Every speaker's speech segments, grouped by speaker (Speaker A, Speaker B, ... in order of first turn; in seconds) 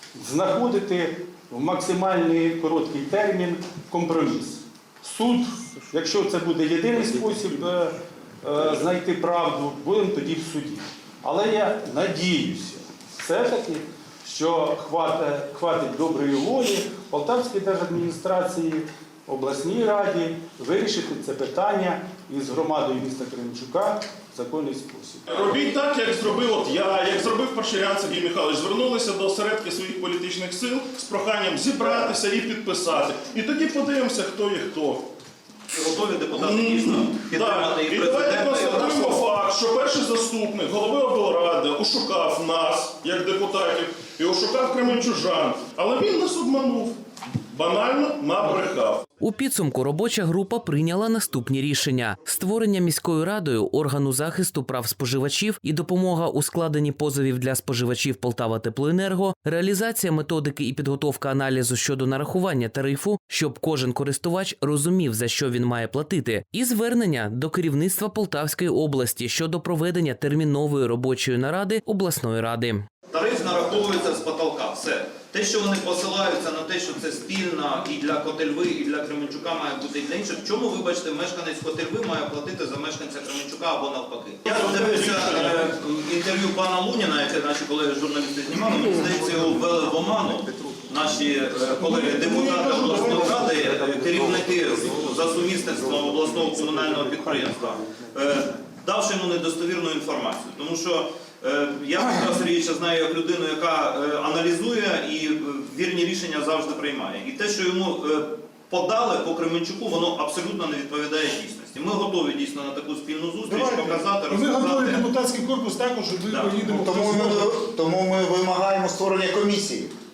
Speaker A: 0.1-25.2
Speaker B: 25.3-35.1, 36.4-46.9, 47.5-49.0, 84.5-85.6
Speaker C: 35.7-39.2, 73.1-115.0, 116.3-116.7
Speaker D: 49.2-72.8
Speaker E: 91.8-93.5, 113.5-117.4
Speaker F: 116.8-119.9